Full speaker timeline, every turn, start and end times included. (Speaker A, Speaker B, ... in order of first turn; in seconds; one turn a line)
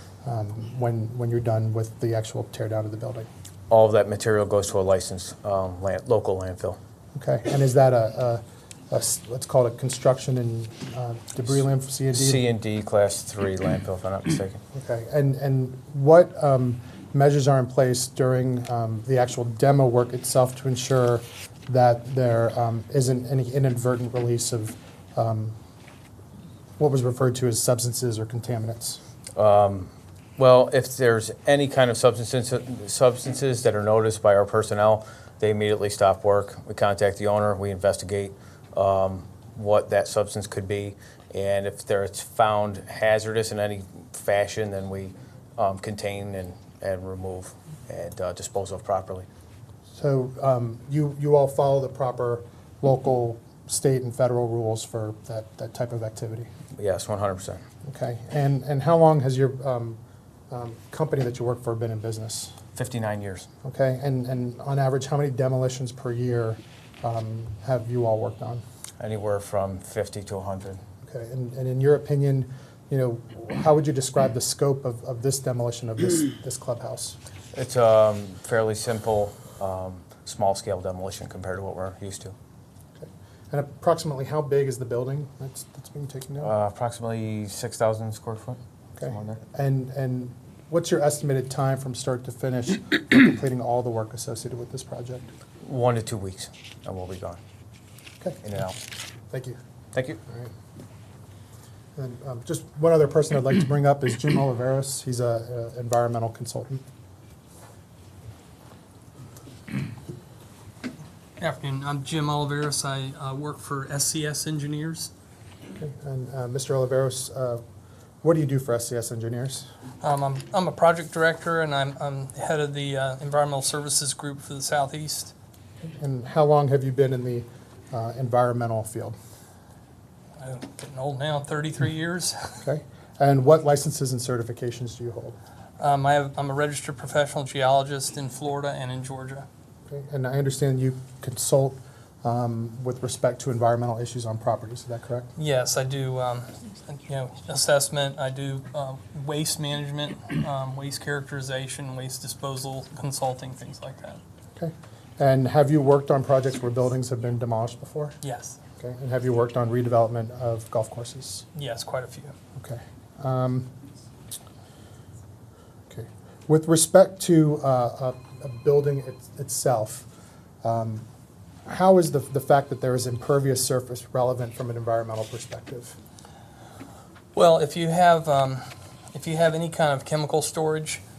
Speaker A: 0.2-3.3
Speaker B: 3.7-6.8
Speaker A: 7.1-12.4
Speaker B: 12.1-14.6
Speaker A: 14.7-25.6
Speaker A: 26.8-29.0
Speaker B: 29.4-49.3
Speaker A: 50.0-56.5
Speaker B: 56.8-57.6
Speaker A: 57.8-60.0
Speaker A: 60.5-62.5
Speaker B: 62.7-63.5
Speaker A: 63.6-68.6
Speaker B: 69.0-70.8
Speaker A: 71.0-77.2
Speaker B: 77.5-82.3
Speaker A: 83.0-86.5
Speaker B: 86.4-89.4
Speaker A: 89.0-95.3
Speaker B: 95.6-97.4
Speaker B: 98.4-98.8
Speaker A: 99.3-99.6
Speaker B: 99.9-100.2
Speaker A: 102.0-106.8
Speaker C: 111.4-115.1
Speaker A: 115.8-117.6
Speaker A: 118.2-119.7
Speaker C: 120.0-125.3
Speaker A: 125.9-129.2
Speaker C: 130.4-132.6
Speaker A: 132.6-135.4
Speaker C: 135.8-139.4
Speaker A: 139.9-145.3
Speaker C: 145.3-154.2
Speaker A: 154.6-158.2
Speaker C: 158.2-158.6
Speaker A: 158.8-161.4
Speaker C: 161.5-162.3
Speaker A: 162.6-163.7
Speaker A: 165.9-170.1
Speaker A: 170.6-171.0
Speaker A: 171.7-176.0
Speaker C: 177.3-181.0